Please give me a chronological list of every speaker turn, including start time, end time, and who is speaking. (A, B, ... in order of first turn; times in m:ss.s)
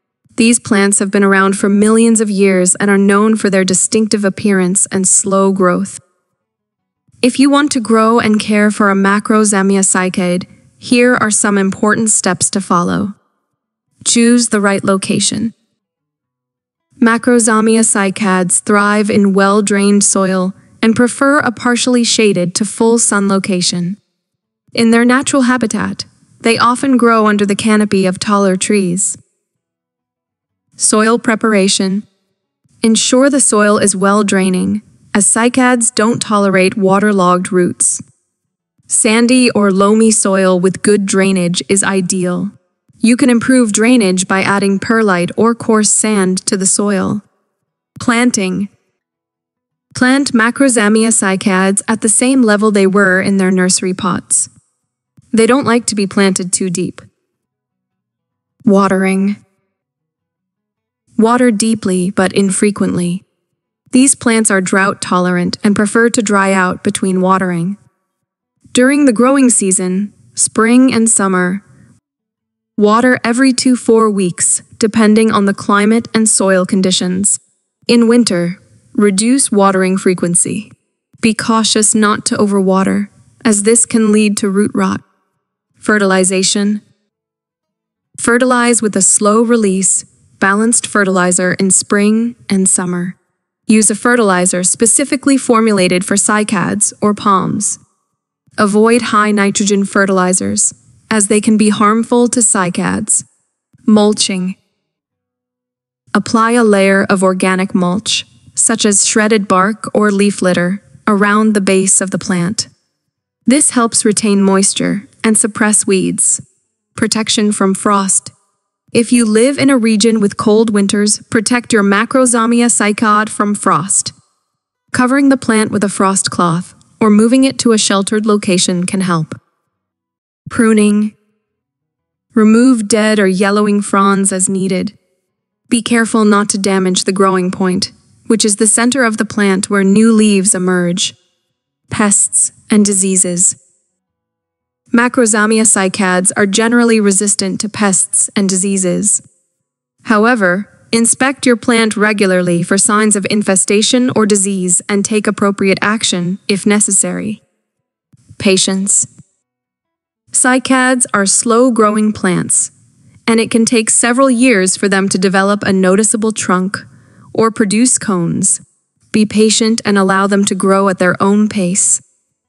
0:00.4-0:06.0 A
0:07.2-0:13.2 A
0:14.0-0:15.5 A
0:17.0-0:24.0 A
0:24.7-0:29.2 A
0:30.8-0:32.1 A
0:32.8-0:38.0 A
0:38.9-0:47.2 A
0:48.0-0:48.7 A
0:49.9-0:54.5 A
0:55.3-0:57.0 A
0:58.6-0:59.4 A
1:01.2-1:03.2 A
1:03.9-1:07.8 A
1:08.7-1:11.6 A
1:12.8-1:25.0 A
1:25.8-1:26.8 A
1:28.2-1:37.8 A
1:38.6-1:43.3 A
1:43.9-1:44.6 A
1:46.1-1:52.7 A
1:53.5-1:56.4 A
1:57.0-1:58.3 A
1:58.9-2:04.2 A
2:04.9-2:09.4 A
2:10.5-2:11.2 A
2:12.3-2:15.0 A
2:15.7-2:21.2 A
2:21.9-2:23.6 A
2:24.9-2:29.2 A
2:30.0-2:37.4 A
2:38.4-2:39.1 A
2:40.3-2:42.7 A
2:43.3-2:52.0 A